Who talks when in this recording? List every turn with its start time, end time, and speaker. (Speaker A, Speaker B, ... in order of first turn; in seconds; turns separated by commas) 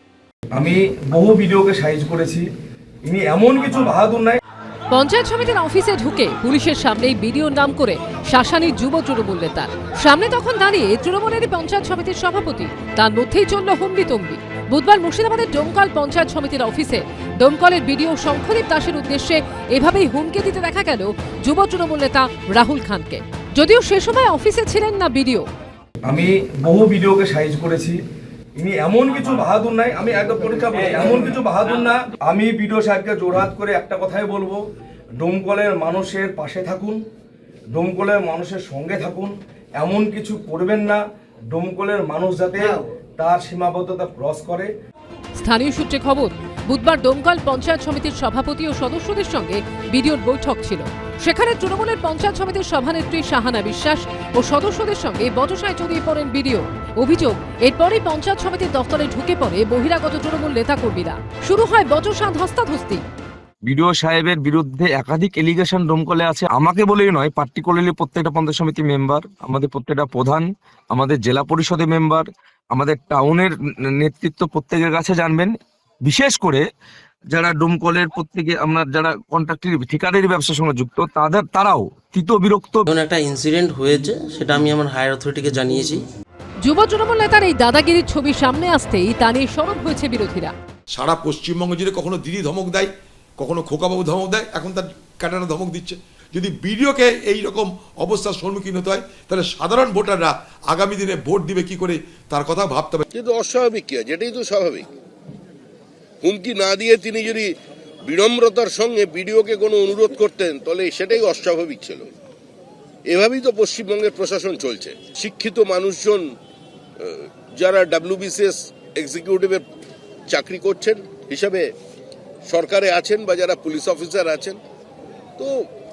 Speaker A: 0.5-2.5, Speaker A: 3.1-4.4, Speaker B: 4.9-25.5, Speaker A: 26.1-28.0, Speaker A: 28.6-34.6, Speaker A: 35.2-37.0, Speaker A: 37.7-41.0, Speaker A: 41.5-44.7, Speaker B: 45.4-63.0, Speaker C: 63.6-75.5, Speaker C: 76.0-76.7, Speaker C: 77.3-82.9, Speaker D: 82.9-86.0, Speaker B: 86.6-90.5, Speaker E: 90.9-103.1, Speaker F: 103.1-104.9, Speaker F: 106.2-107.5, Speaker F: 108.1-112.1, Speaker F: 113.1-116.3, Speaker F: 117.0-119.6, Speaker F: 120.3-121.7, Speaker F: 122.5-124.6